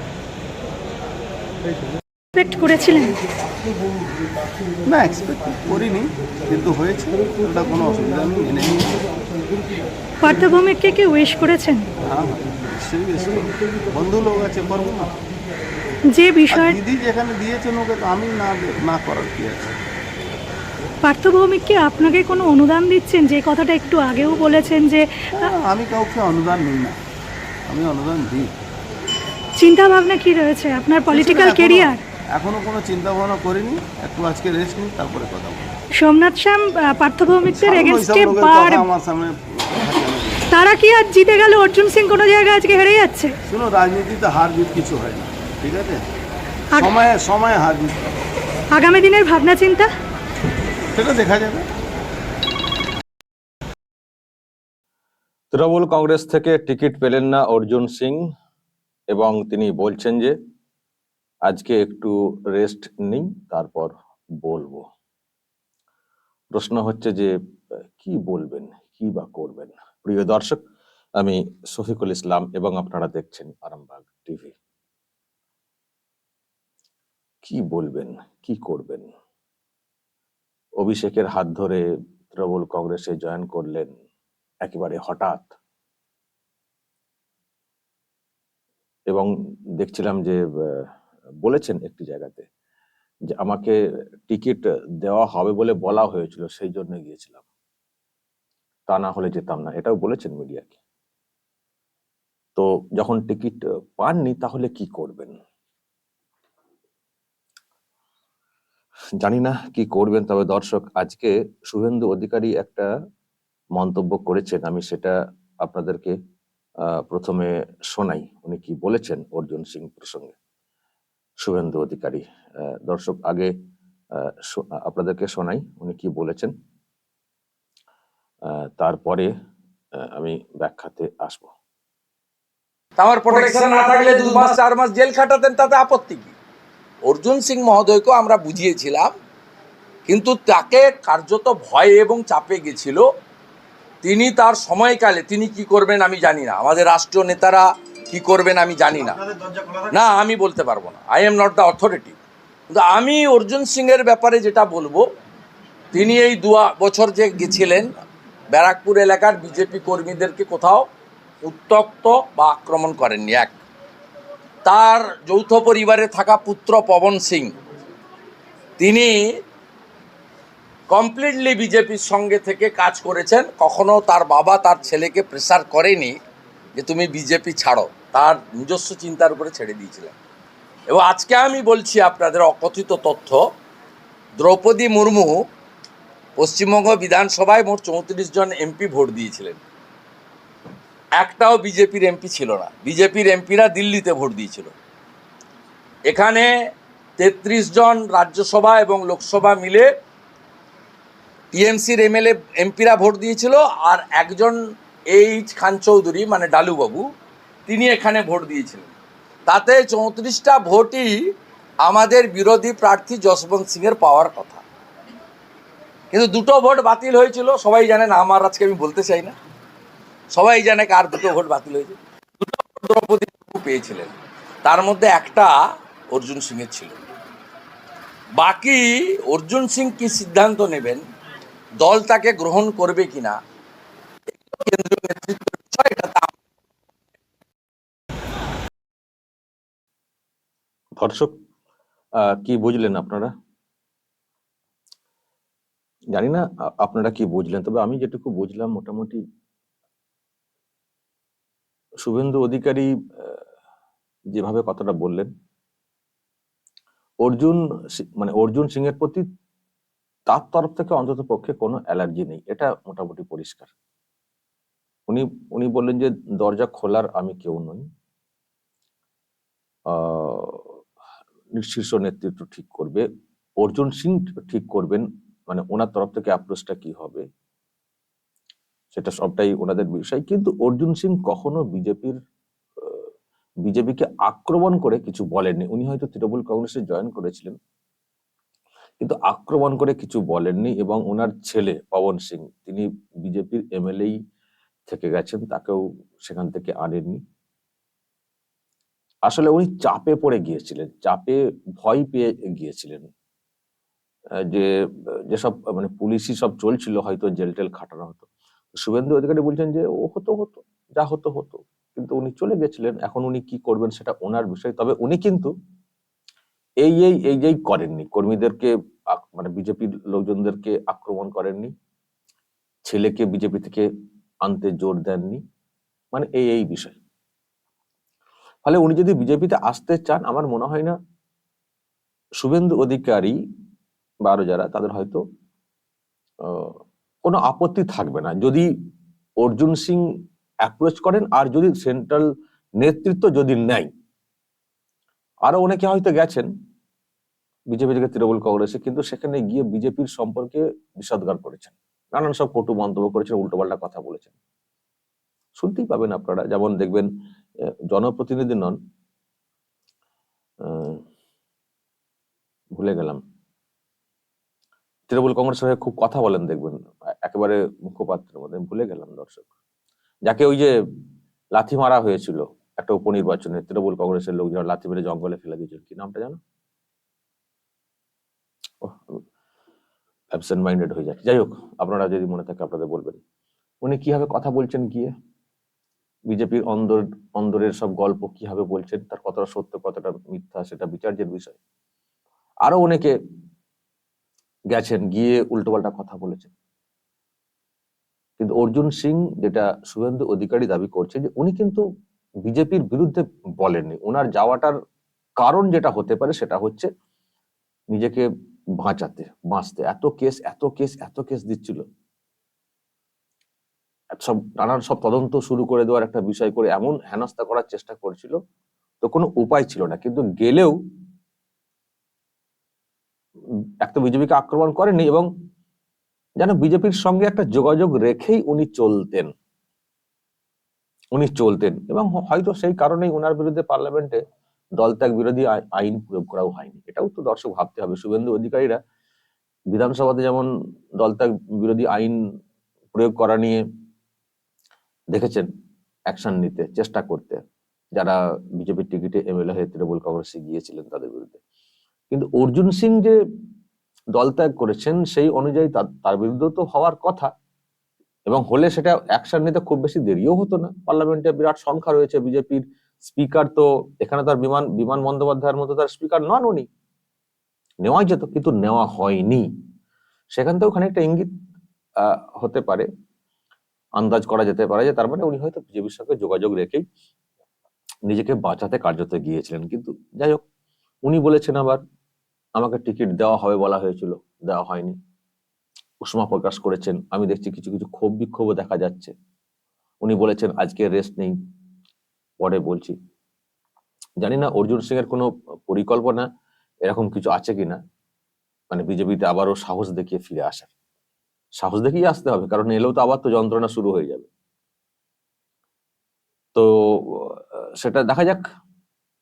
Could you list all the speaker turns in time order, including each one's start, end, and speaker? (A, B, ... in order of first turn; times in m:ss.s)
0:02.3-0:03.2 A
0:04.9-0:09.1 B
0:10.2-0:11.9 A
0:12.0-0:15.1 B
0:16.1-0:16.8 A
0:16.5-0:19.8 B
0:21.0-0:25.5 A
0:25.3-0:27.0 B
0:27.7-0:28.5 B
0:29.6-0:32.0 A
0:31.1-0:35.7 B
0:36.0-0:38.8 A
0:37.5-0:40.5 B
0:40.5-0:43.3 A
0:43.5-0:46.1 B
0:46.8-0:48.0 B
0:48.7-0:49.9 A
0:50.9-0:51.7 B
0:55.5-0:58.3 C
0:59.1-1:00.4 C
1:01.5-1:04.9 C
1:06.6-1:07.3 C
1:08.0-1:10.6 C
1:11.2-1:14.6 C
1:17.4-1:19.1 C
1:20.8-1:23.9 C
1:24.6-1:25.6 C
1:29.1-1:30.9 C
1:31.4-1:32.5 C
1:33.3-1:33.8 C
1:34.3-1:37.4 C
1:38.9-1:40.8 C
1:42.6-1:45.4 C
1:49.2-1:52.9 C
1:53.8-1:56.2 C
1:56.9-2:00.4 C
2:01.4-2:03.5 C
2:04.2-2:06.5 C
2:08.5-2:09.3 C
2:10.0-2:11.5 C
2:13.0-2:16.3 D
2:17.1-2:19.1 D
2:20.1-2:23.0 D
2:24.0-2:29.3 D
2:29.9-2:32.2 D
2:32.7-2:35.0 D
2:35.9-2:37.9 D
2:38.5-2:40.9 D
2:41.4-2:43.6 D
2:44.6-2:47.5 D
2:48.8-2:49.3 D
2:50.9-2:56.2 D
2:56.8-3:00.2 D
3:00.9-3:03.4 D
3:04.4-3:05.4 D
3:06.4-3:09.6 D
3:11.2-3:14.7 D
3:16.1-3:16.5 D
3:17.2-3:19.9 D
3:21.5-3:24.6 D
3:25.1-3:27.1 D
3:27.7-3:28.9 D
3:29.5-3:31.2 D
3:31.8-3:34.6 D
3:36.1-3:39.4 D
3:40.3-3:45.6 D
3:46.1-3:47.0 D
3:48.4-3:51.0 D
3:51.8-3:53.4 D
3:54.5-3:56.3 D
4:01.0-4:01.3 C
4:02.3-4:03.3 C
4:06.1-4:09.2 C
4:12.0-4:13.4 C
4:14.4-4:15.3 C
4:17.2-4:19.2 C
4:20.3-4:23.7 C
4:25.1-4:27.9 C
4:29.9-4:30.7 C
4:31.6-4:33.1 C
4:33.6-4:37.2 C
4:38.9-4:42.2 C
4:42.8-4:43.1 C
4:43.7-4:47.6 C
4:49.0-4:54.2 C
4:54.9-4:57.2 C
4:59.3-5:03.1 C
5:05.3-5:15.5 C
5:16.8-5:21.7 C
5:22.9-5:23.9 C
5:24.4-5:25.4 C
5:26.1-5:27.0 C
5:28.6-5:31.0 C
5:32.4-5:33.4 C
5:34.2-5:35.2 C
5:36.4-5:38.7 C
5:39.4-5:40.1 C
5:40.6-5:42.3 C
5:42.8-5:43.9 C
5:45.5-5:46.5 C
5:47.7-5:54.3 C
5:55.6-5:57.1 C
5:57.9-5:58.8 C
6:00.6-6:01.0 C
6:02.8-6:03.2 C
6:05.1-6:09.5 C
6:10.3-6:10.8 C
6:11.6-6:16.4 C
6:18.8-6:19.2 C
6:20.3-6:23.2 C
6:23.8-6:25.1 C
6:26.3-6:31.6 C
6:32.6-6:33.2 C
6:34.7-6:36.5 C
6:38.4-6:41.8 C
6:42.5-6:44.8 C
6:45.4-6:46.9 C
6:47.9-6:48.3 C
6:48.8-6:51.8 C
6:54.1-6:58.4 C
6:59.0-7:00.8 C
7:03.8-7:05.3 C
7:06.4-7:09.3 C
7:11.1-7:14.2 C
7:14.8-7:18.8 C
7:19.7-7:22.2 C
7:22.9-7:23.6 C
7:25.1-7:25.5 C
7:26.1-7:27.4 C
7:28.0-7:31.4 C
7:32.1-7:33.2 C
7:34.2-7:37.3 C
7:38.3-7:46.7 C
7:47.8-7:49.5 C
7:50.4-7:51.3 C
7:52.0-7:52.9 C
7:54.0-7:56.8 C
7:58.1-8:00.4 C
8:01.1-8:01.8 C
8:02.6-8:05.0 C
8:06.0-8:09.1 C
8:10.0-8:11.4 C
8:12.4-8:13.0 C
8:14.2-8:16.3 C
8:16.9-8:17.8 C
8:18.7-8:20.7 C
8:21.6-8:24.3 C
8:26.6-8:28.4 C